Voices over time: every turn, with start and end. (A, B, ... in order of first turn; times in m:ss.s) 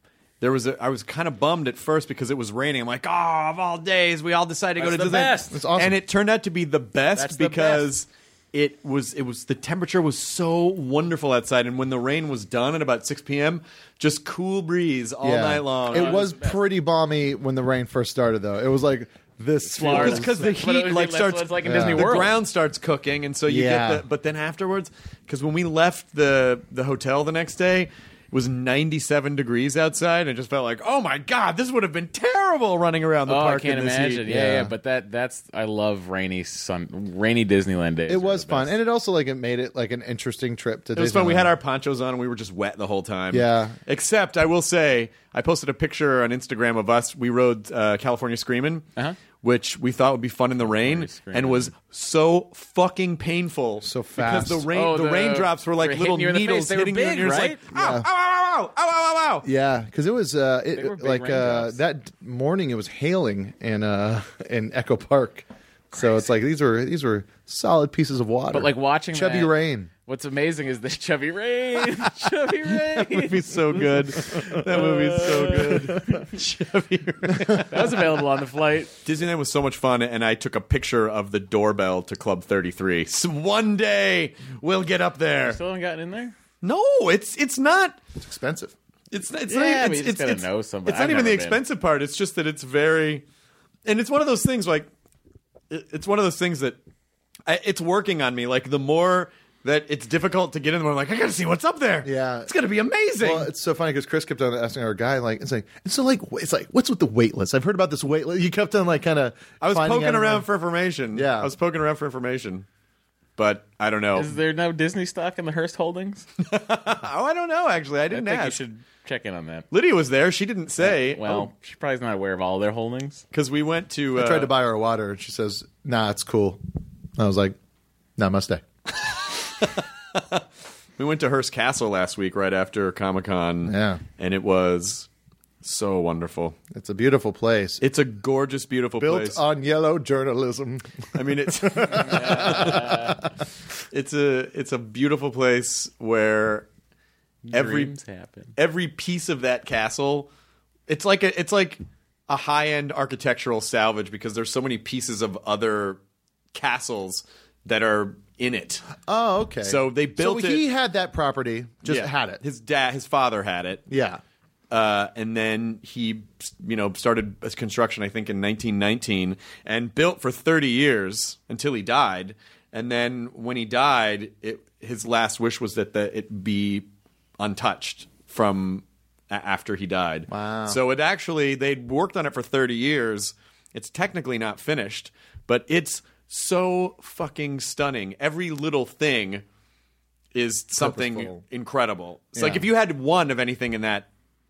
0:00.4-0:16.2 A
0:04.8-0:05.6 B
0:05.5-0:06.0 C
0:07.1-0:07.9 B
0:15.2-0:20.4 C
0:15.9-0:16.6 B
0:19.7-0:22.3 B
0:19.9-0:34.3 A
0:21.6-0:22.3 C
0:23.4-0:24.0 C
0:33.3-0:38.8 B
0:34.2-0:34.7 C
0:38.1-0:41.5 C
0:40.9-0:48.9 A
0:43.3-0:43.8 C
0:49.4-0:59.5 A
0:50.7-0:51.7 B
0:53.8-0:54.7 C
0:54.7-0:57.6 B
0:57.8-0:58.1 C
0:59.4-1:09.9 C
1:00.8-1:01.8 B
1:08.5-1:16.2 B
1:12.8-1:18.0 A
1:17.7-1:18.9 B
1:19.0-1:25.6 A
1:25.4-1:26.4 B
1:26.6-1:28.0 A
1:28.2-1:28.7 C
1:29.1-1:33.2 A
1:29.5-1:31.6 B
1:33.9-1:34.9 A
1:35.7-1:36.8 A
1:37.5-1:43.5 A
1:42.0-1:42.5 C
1:43.2-1:50.5 C
1:49.6-1:52.6 A
1:51.1-1:51.5 C
1:53.4-1:54.3 A
1:54.2-1:56.2 B
1:56.4-1:58.6 A
1:58.1-1:59.6 B
1:59.7-2:01.5 A
2:00.8-2:03.2 B
2:03.3-2:04.5 A
2:04.1-2:06.6 C
2:07.2-2:07.6 C
2:08.2-2:08.6 C
2:09.6-2:10.4 A
2:11.0-2:15.1 A
2:13.6-2:14.0 C
2:15.6-2:16.5 A
2:16.7-2:17.8 C
2:17.8-2:19.4 A
2:19.0-2:23.1 C
2:21.1-2:23.1 A
2:21.9-2:23.2 B
2:23.9-2:26.7 A
2:27.4-2:28.5 B
2:27.5-2:27.9 A
2:28.6-2:30.3 A
2:30.9-2:36.0 A
2:36.5-2:38.9 A
2:39.0-2:42.4 C
2:39.6-2:40.6 A
2:41.8-2:43.8 A
2:43.9-2:44.2 C
2:44.7-2:56.9 A
2:57.4-3:09.4 A
3:00.3-3:00.8 C
3:10.3-3:14.1 A
3:10.8-3:11.4 C
3:12.4-3:12.7 C